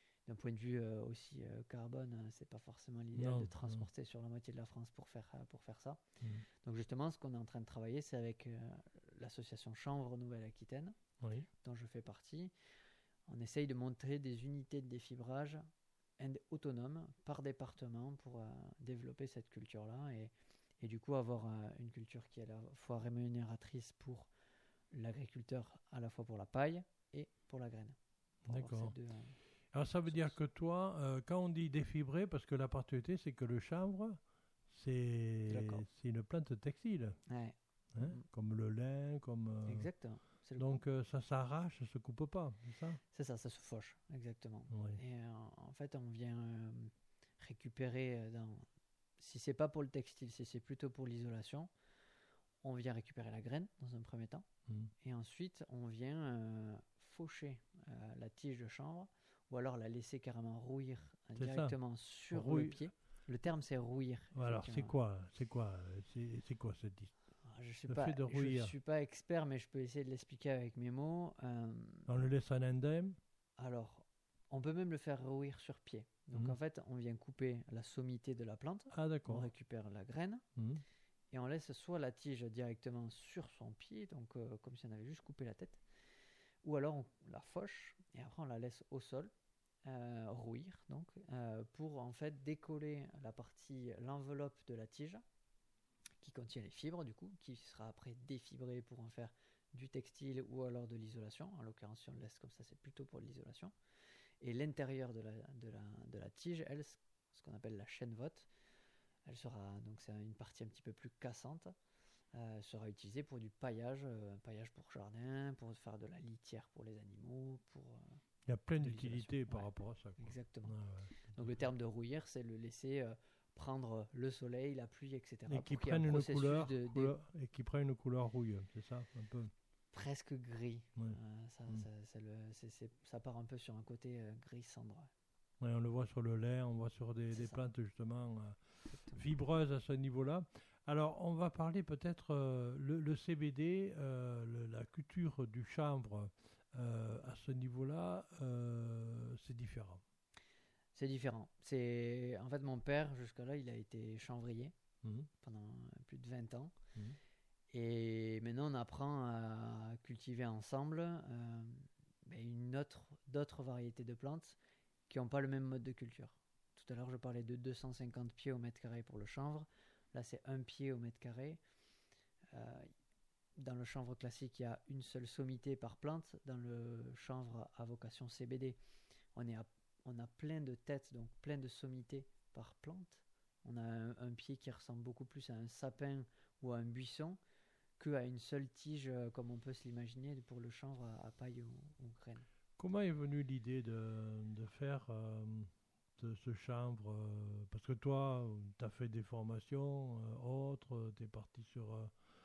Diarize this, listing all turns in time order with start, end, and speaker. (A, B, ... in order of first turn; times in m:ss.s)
0:00.2-0:06.0 A
0:03.2-0:03.8 B
0:06.6-0:11.0 A
0:11.6-0:12.5 A
0:13.3-0:15.7 A
0:16.2-0:24.3 A
0:24.9-0:29.4 A
0:28.5-0:28.9 B
0:29.7-0:37.2 B
0:30.1-0:30.4 A
0:35.5-0:35.8 A
0:37.3-0:38.2 A
0:37.9-0:43.0 B
0:39.6-0:40.8 A
0:43.1-0:48.6 A
0:44.7-0:45.0 B
0:49.2-0:51.7 A
0:52.6-0:54.5 A
0:55.0-1:04.9 A
1:01.4-1:01.7 B
1:02.3-1:02.9 B
1:04.3-1:07.1 B
1:07.4-1:12.1 A
1:07.9-1:08.7 B
1:12.1-1:13.2 B
1:13.6-1:20.4 A
1:18.9-1:19.5 B
1:20.6-1:20.8 B
1:21.3-1:25.8 A
1:26.6-1:29.3 A
1:29.8-1:35.2 A
1:36.2-1:43.7 A
1:44.4-1:48.5 A
1:49.2-1:51.7 A
1:52.3-1:58.2 A
1:58.5-2:01.7 B
1:58.8-2:00.8 A
2:01.3-2:07.1 A
2:05.5-2:09.5 B
2:09.9-2:15.1 A
2:15.6-2:30.0 B
2:17.3-2:17.6 A
2:18.9-2:19.2 A
2:30.9-2:34.7 A
2:35.0-2:35.3 B
2:35.4-2:36.7 A
2:37.7-2:44.6 A
2:45.1-2:51.6 A
2:52.5-2:52.9 A
2:53.6-2:58.8 A
2:59.3-3:07.4 A
3:08.0-3:12.4 A
3:12.8-3:22.1 B